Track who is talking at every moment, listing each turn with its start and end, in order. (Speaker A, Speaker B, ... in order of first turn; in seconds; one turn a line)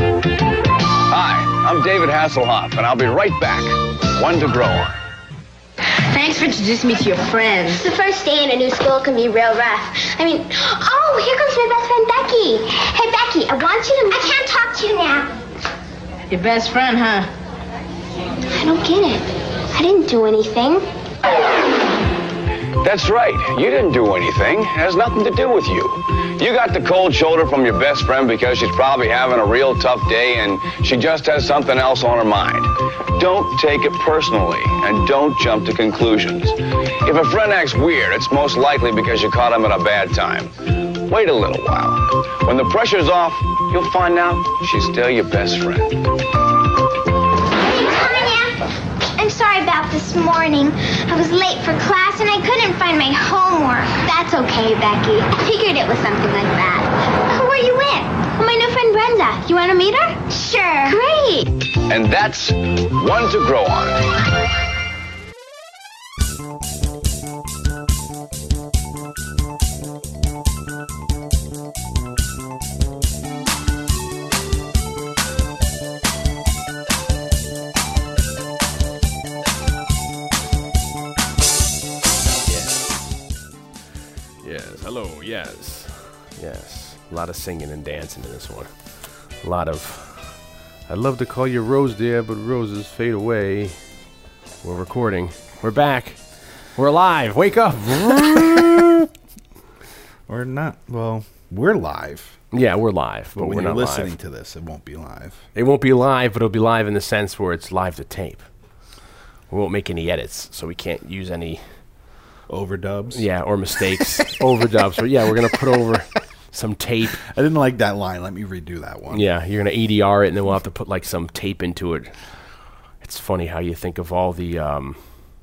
Speaker A: 1.0-5.0
Speaker B: 5.9-7.9
Speaker C: 7.8-15.3
Speaker B: 16.3-17.3
Speaker C: 18.5-20.9
Speaker A: 22.8-46.2
Speaker C: 47.8-48.6
Speaker C: 49.2-61.6
Speaker A: 61.9-64.2
Speaker D: 82.5-82.8
Speaker D: 84.4-88.7
Speaker D: 89.4-90.3
Speaker D: 90.9-93.8
Speaker D: 94.6-96.2
Speaker D: 96.8-99.1
Speaker E: 100.3-102.4
Speaker D: 102.5-104.1
Speaker E: 103.3-105.5
Speaker D: 105.5-108.5
Speaker D: 109.5-111.6
Speaker E: 112.5-113.2
Speaker D: 113.1-117.2
Speaker E: 117.2-119.2
Speaker D: 119.1-122.1
Speaker D: 123.0-125.0